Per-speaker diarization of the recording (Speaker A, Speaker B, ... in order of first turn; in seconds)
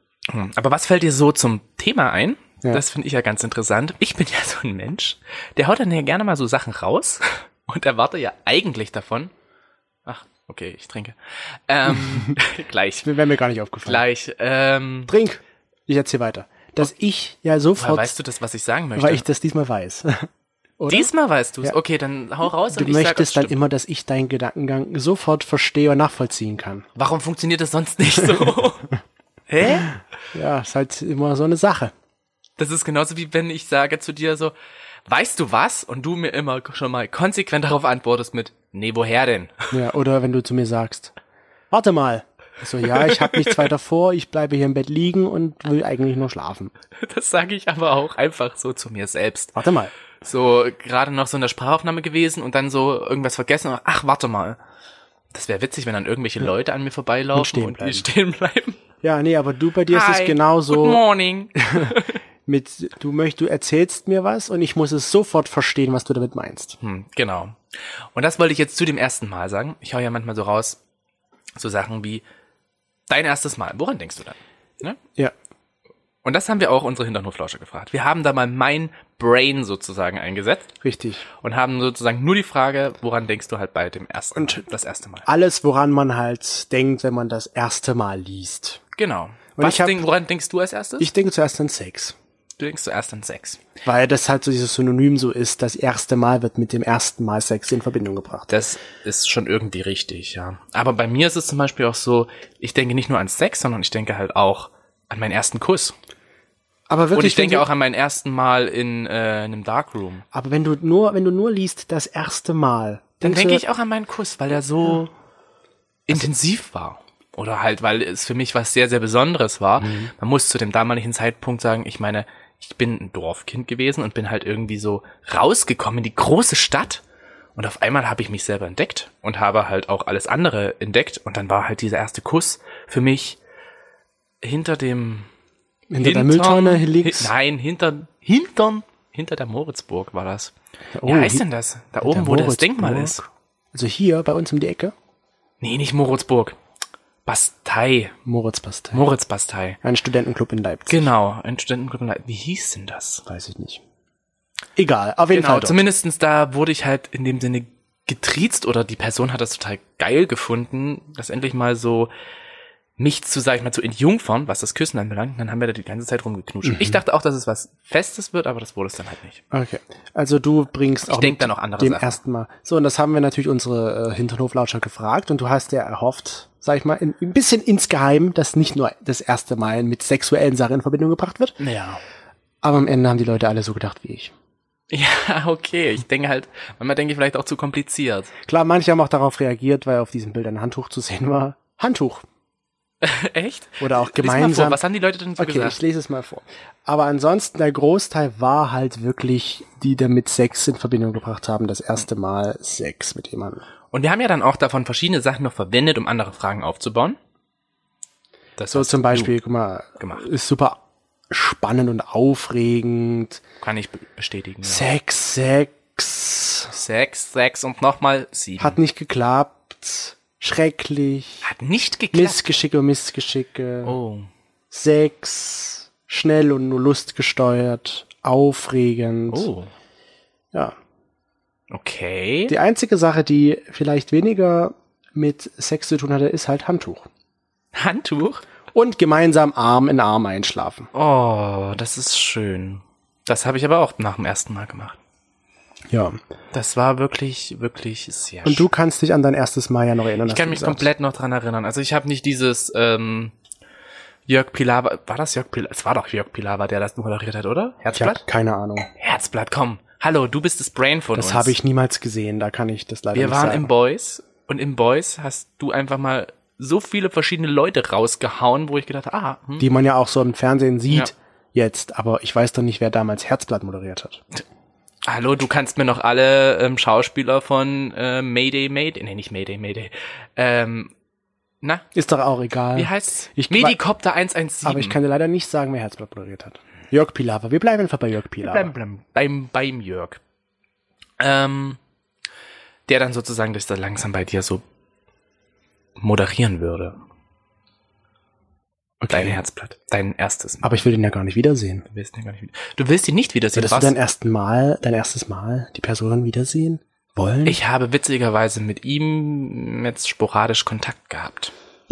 Speaker A: 0.3-9.3, 10.0-13.1, 13.8-15.1, 17.8-19.2, 20.9-23.5, 26.9-28.9, 29.5-29.9, 32.6-34.5, 35.1-39.7, 42.8-43.6, 47.0-49.5, 50.2-54.6, 55.3-58.8, 59.9-62.2, 66.8-70.8, 71.5-72.2, 73.1-75.0, 76.2-80.7, 81.4-85.2, 88.9-91.1, 92.6-93.6, 98.5-106.0, 107.1-110.2, 113.2-115.1, 116.1-127.0, 127.5-133.4, 134.4-135.3, 136.0-140.5, 141.0-143.2, 145.6-146.6, 147.2-148.2, 148.9-149.8, 150.9-153.2, 155.3-162.1, 163.0-169.4, 171.1-172.2, 181.6-182.0, 184.9-188.3, 193.0-195.8, 203.9-207.2, 208.6-209.3, 210.0-210.2, 213.6-214.8, 216.7-218.8, 221.4-222.5, 223.8-224.3, 229.3-229.7, 231.7-232.5, 237.7-238.4, 240.9-245.0, 246.5-248.7, 250.2-253.3, 254.3-258.2, 259.0-261.5, 263.1-269.7, 275.0-280.9, 282.7-285.0, 288.4-290.2, 291.2-291.8, 292.9-294.6, 296.0-297.0, 299.1-300.9, 301.9-304.0, 307.4-311.5
Speaker B: 13.0-14.0, 15.1-18.1, 18.9-21.1, 22.7-26.9, 29.7-31.9, 39.7-41.1, 41.7-46.7, 49.5-49.9, 57.3-58.1, 59.0-61.0, 61.6-66.8, 80.8-81.2, 84.3-84.6, 85.2-88.8, 89.6-90.1, 91.0-92.2, 93.8-98.5, 106.9-107.7, 110.3-113.6, 119.8-120.1, 135.9-137.3, 140.9-141.4, 142.0-144.9, 148.2-149.0, 149.8-151.1, 153.3-153.8, 154.8-155.8, 166.6-167.0, 169.5-181.6, 182.6-184.3, 188.4-192.2, 193.8-194.8, 195.4-203.6, 208.7-210.8, 211.3-213.4, 214.6-216.7, 218.6-221.5, 222.1-224.0, 224.7-229.5, 232.5-237.1, 238.7-240.9, 245.9-246.2, 248.4-250.9, 257.9-258.9, 261.1-263.7, 269.6-274.2, 281.9-283.8, 284.6-288.7, 299.0-299.4, 300.6-301.9, 303.5-307.6